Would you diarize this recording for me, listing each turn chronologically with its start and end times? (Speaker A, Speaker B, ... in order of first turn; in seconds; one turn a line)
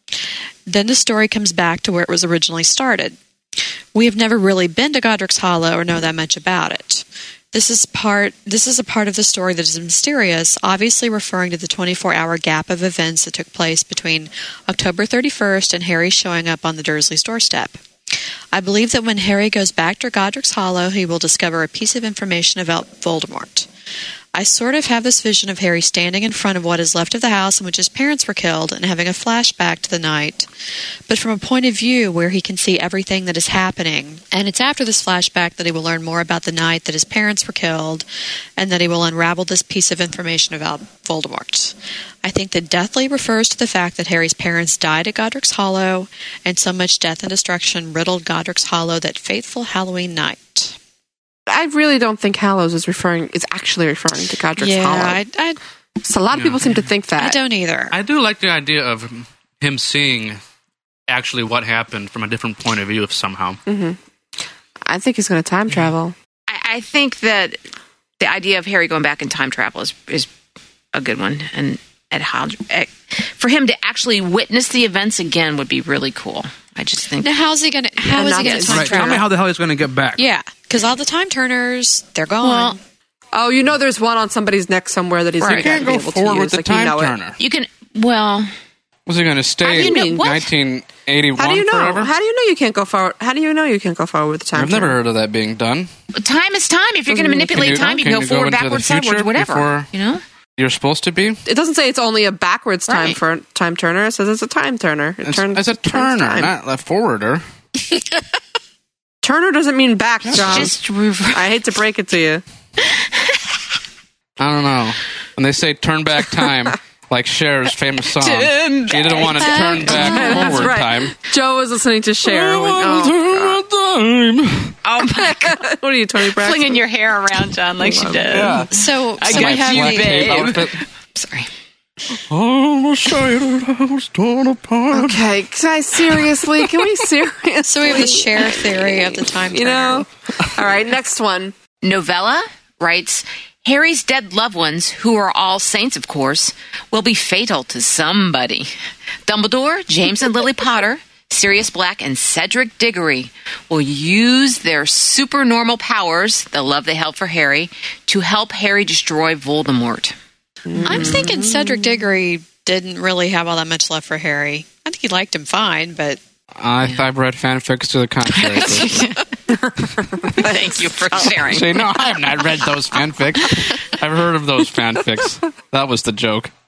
Speaker A: 0.7-3.2
Speaker A: 3.9-17.8
Speaker A: 18.5-23.7
Speaker A: 24.3-30.5
Speaker A: 31.1-38.1
Speaker A: 38.6-50.8
Speaker B: 51.5-55.2
Speaker A: 54.6-55.6
Speaker B: 56.0-57.4
Speaker C: 56.3-56.6
Speaker A: 57.2-58.0
Speaker C: 57.9-60.4
Speaker C: 61.1-63.6
Speaker B: 63.7-64.0
Speaker B: 64.8-66.2
Speaker D: 66.5-67.6
Speaker D: 68.2-70.3
Speaker D: 70.9-77.3
Speaker A: 77.2-79.2
Speaker B: 78.1-79.2
Speaker C: 78.7-80.2
Speaker A: 80.2-82.8
Speaker D: 82.4-82.8
Speaker B: 83.3-87.2
Speaker C: 85.4-87.4
Speaker D: 87.4-88.5
Speaker C: 89.1-92.1
Speaker D: 89.6-90.5
Speaker B: 89.7-90.2
Speaker B: 91.4-95.0
Speaker C: 94.5-95.9
Speaker D: 96.1-100.2
Speaker B: 97.1-97.7
Speaker C: 97.5-99.9
Speaker C: 100.6-101.4
Speaker B: 101.5-106.5
Speaker D: 102.9-103.2
Speaker C: 105.2-107.5
Speaker B: 109.2-110.8
Speaker C: 110.2-110.7
Speaker D: 110.4-111.5
Speaker B: 111.3-112.4
Speaker D: 112.8-113.3
Speaker C: 114.4-121.2
Speaker D: 118.2-120.7
Speaker A: 119.4-119.8
Speaker B: 119.9-123.6
Speaker C: 122.2-124.8
Speaker D: 124.8-125.6
Speaker B: 125.2-126.8
Speaker D: 126.3-131.5
Speaker B: 127.8-128.3
Speaker C: 128.3-128.7
Speaker A: 128.7-130.4
Speaker C: 129.3-130.8
Speaker C: 132.3-135.2
Speaker B: 134.9-141.6
Speaker A: 137.7-140.1
Speaker D: 141.8-148.7
Speaker D: 149.3-160.2
Speaker B: 160.7-161.9
Speaker D: 160.8-161.2
Speaker A: 160.8-166.2
Speaker C: 166.6-169.1
Speaker D: 168.3-169.2
Speaker B: 169.5-170.6
Speaker D: 170.3-171.9
Speaker C: 171.4-176.5